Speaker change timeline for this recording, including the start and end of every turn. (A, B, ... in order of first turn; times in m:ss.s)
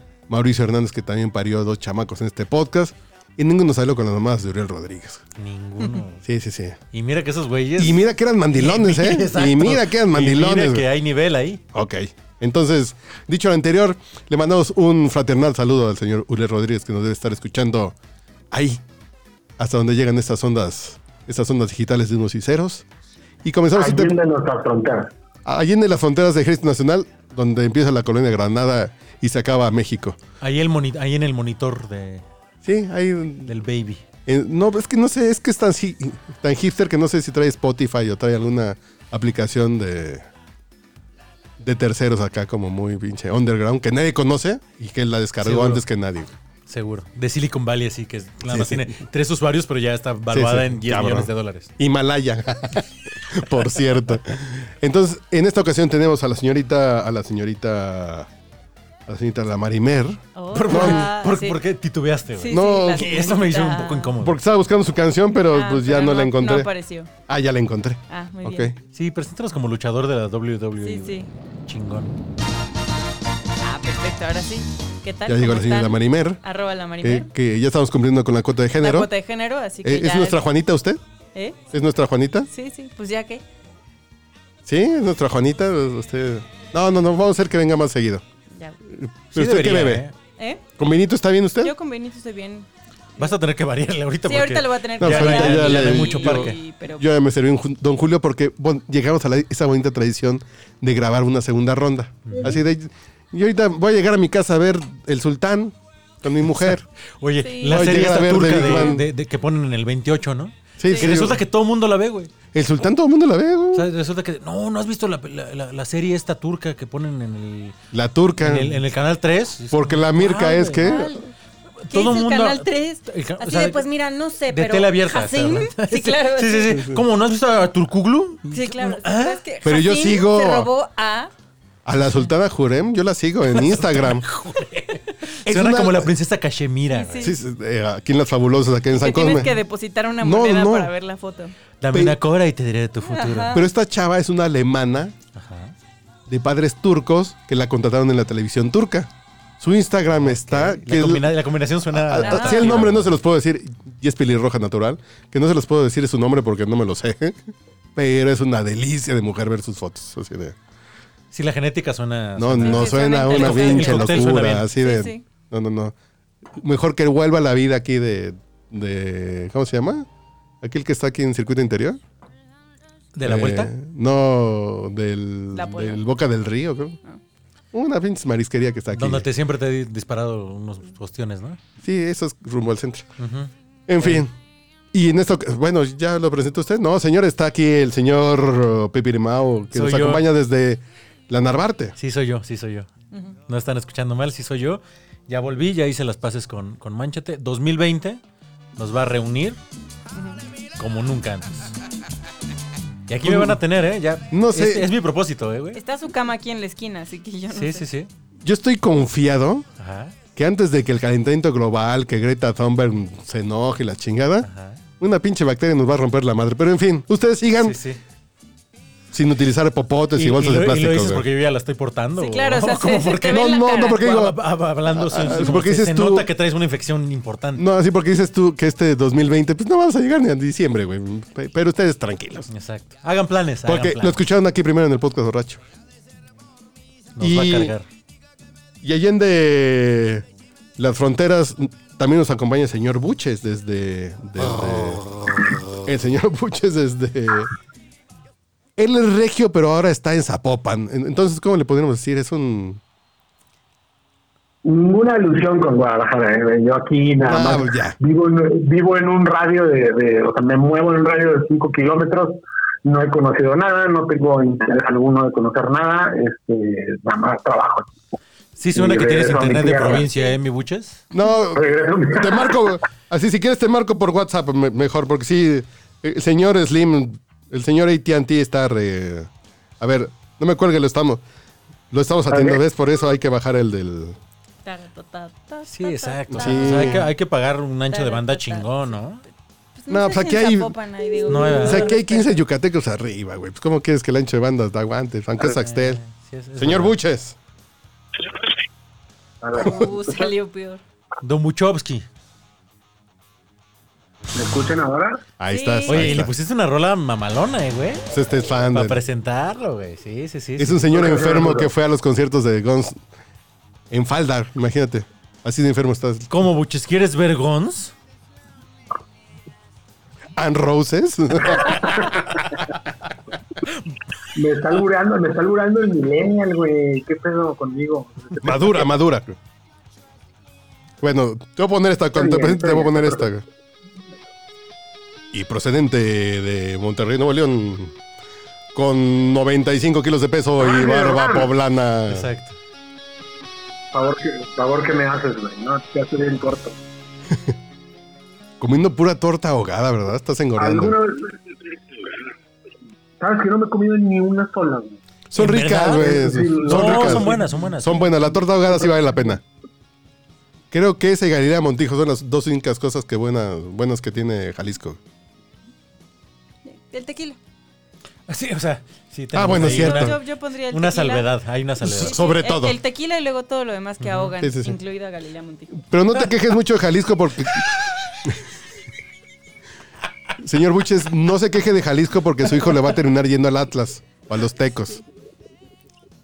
0:00.3-0:05.2 A
0:05.4-0:06.2 B
0:06.2-0:06.8 A
0:06.9-0:11.6 B
0:07.8-0:10.9 A
0:11.7-0:17.9 A
0:18.5-0:18.8 A
0:19.6-0:22.8 A
0:23.4-0:24.2 A
0:23.7-0:25.1 C
0:25.4-0:30.2 A
0:30.4-0:32.2 B
0:32.6-0:33.5 A
0:33.4-0:34.0 B
0:34.2-0:40.2 A
0:41.6-0:46.3 A
0:45.4-0:45.8 B
0:46.7-0:51.7 B
0:48.5-0:49.0 A
0:50.3-0:58.3 A
0:59.1-1:01.1 A
1:00.3-1:01.6 D
1:00.5-1:04.4 B
1:02.4-1:04.1 D
1:02.5-1:03.2 A
1:04.2-1:06.7 A
1:05.5-1:07.1 D
1:07.3-1:08.7 A
1:08.1-1:08.7 D
1:08.9-1:12.1 B
1:10.8-1:11.3 D
1:13.6-1:17.3 D
1:15.2-1:16.4 A
1:17.0-1:19.1 A
1:18.8-1:20.4 D
1:19.8-1:21.0 A
1:21.3-1:21.6 D
1:21.7-1:22.5 A
1:22.5-1:23.4 D
1:24.6-1:28.2 A
1:28.8-1:30.0 A
1:29.3-1:30.1 B
1:30.4-1:30.6 D
1:30.8-1:31.7 A
1:31.6-1:32.7 D
1:33.2-1:36.6 B
1:34.2-1:37.0 D
1:35.0-1:46.8 A
1:42.3-1:42.5 B
1:46.5-1:52.3 B
1:47.4-1:47.9 D
1:47.6-1:49.0 A
1:50.8-1:51.4 A
1:52.5-1:53.9 A
1:53.7-1:57.8 B
1:57.9-1:58.8 A
1:58.4-2:01.1 B
1:59.7-2:01.1 A
2:00.8-2:01.3 D
2:01.8-2:03.8 B
2:01.9-2:06.9 D
2:04.5-2:09.4 B
2:08.5-2:11.3 D
2:09.6-2:10.7 A
2:11.8-2:14.3 A
2:13.5-2:17.3 B
2:15.4-2:16.1 A
2:16.9-2:17.3 D
2:17.2-2:19.6 A
2:19.0-2:21.5 D
2:20.2-2:20.9 A
2:21.8-2:23.6 B
2:21.9-2:22.2 A
2:23.0-2:23.6 D
2:23.5-2:25.1 A
2:25.3-2:25.7 B
2:26.3-2:31.4 A
2:30.2-2:33.1 B
2:31.9-2:37.4 A
2:32.2-2:32.8 D
2:38.0-2:40.6 A
2:41.3-2:44.7 B
2:42.4-2:45.9 A
2:42.6-2:45.2 D
2:46.5-2:50.1 A
2:50.6-2:52.0 A
2:53.1-2:53.7 B
2:53.2-2:57.0 A
2:55.5-2:56.0 D
2:57.7-2:59.2 A
2:58.9-3:01.6 B
3:01.8-3:03.1 A
3:03.2-3:04.2 B
3:03.9-3:04.3 A
3:04.9-3:12.0 A
3:09.7-3:10.3 B
3:12.0-3:12.9 B
3:13.1-3:13.4 D
3:13.5-3:18.2 B
3:18.8-3:19.6 B
3:20.1-3:20.4 D
3:20.8-3:21.7 B
3:23.1-3:25.8 B
3:23.2-3:23.6 A
3:24.3-3:24.9 A
3:25.7-3:27.8 D
3:27.5-3:28.1 B
3:28.4-3:29.7 A
3:29.8-3:30.1 B
3:30.4-3:34.5 A
3:34.4-3:34.8 B
3:35.0-3:37.8 A
3:37.6-3:38.0 B
3:39.1-3:41.2 A
3:40.1-3:47.6 B
3:42.2-3:44.0 D
3:43.3-3:46.3 A
3:47.6-3:52.5 A
3:52.5-3:54.2 B
3:53.6-3:55.6 A
3:57.2-3:57.8 B
3:57.2-3:57.7 A
3:58.8-4:00.2 A
4:00.8-4:07.5 A
4:08.8-4:12.8 A
4:14.6-4:27.9 C
4:17.2-4:18.0 A
4:28.6-4:31.0 B
4:28.7-4:30.1 C
4:31.1-4:41.2 A
4:31.5-4:32.7 C
4:41.9-4:44.2 A
4:42.3-4:42.6 C
4:44.6-4:47.1 D
4:45.7-4:49.2 B
4:46.3-4:47.0 A
4:47.9-4:48.9 D
4:49.8-4:52.3 D
4:49.9-4:50.7 A
4:51.3-4:52.0 B
4:51.6-4:56.0 A
4:55.4-4:57.0 B
4:56.6-4:57.4 A
4:59.4-5:00.3 C
4:59.6-5:00.8 D
5:01.2-5:02.0 B
5:04.3-5:05.2 C
5:05.4-5:06.3 A
5:05.5-5:06.2 D
5:05.9-5:08.1 B
5:08.1-5:09.0 A
5:08.7-5:10.9 B
5:10.6-5:13.0 A
5:10.9-5:11.7 C
5:13.9-5:16.3 A
5:16.3-5:17.9 B
5:20.4-5:22.1 A
5:21.6-5:22.2 C
5:24.3-5:28.9 C
5:28.4-5:29.4 A
5:31.0-5:33.4 A
5:32.1-5:33.3 C
5:35.3-5:37.9 A
5:38.7-5:42.3 A
5:40.6-5:41.5 C
5:42.1-5:42.6 B
5:43.9-5:46.8 C
5:48.6-5:51.0 A
5:50.6-5:52.2 C
5:53.2-5:55.0 C
5:55.3-5:59.4 A
5:55.3-5:58.0 B
5:56.0-5:57.5 C
6:00.7-6:05.0 A
6:06.7-6:07.4 D
6:08.3-6:12.2 B
6:09.3-6:10.2 A
6:09.5-6:11.3 D
6:11.8-6:15.8 D
6:11.8-6:12.8 A
6:14.0-6:14.3 B
6:14.4-6:14.8 A
6:15.8-6:17.7 A
6:20.4-6:25.0 A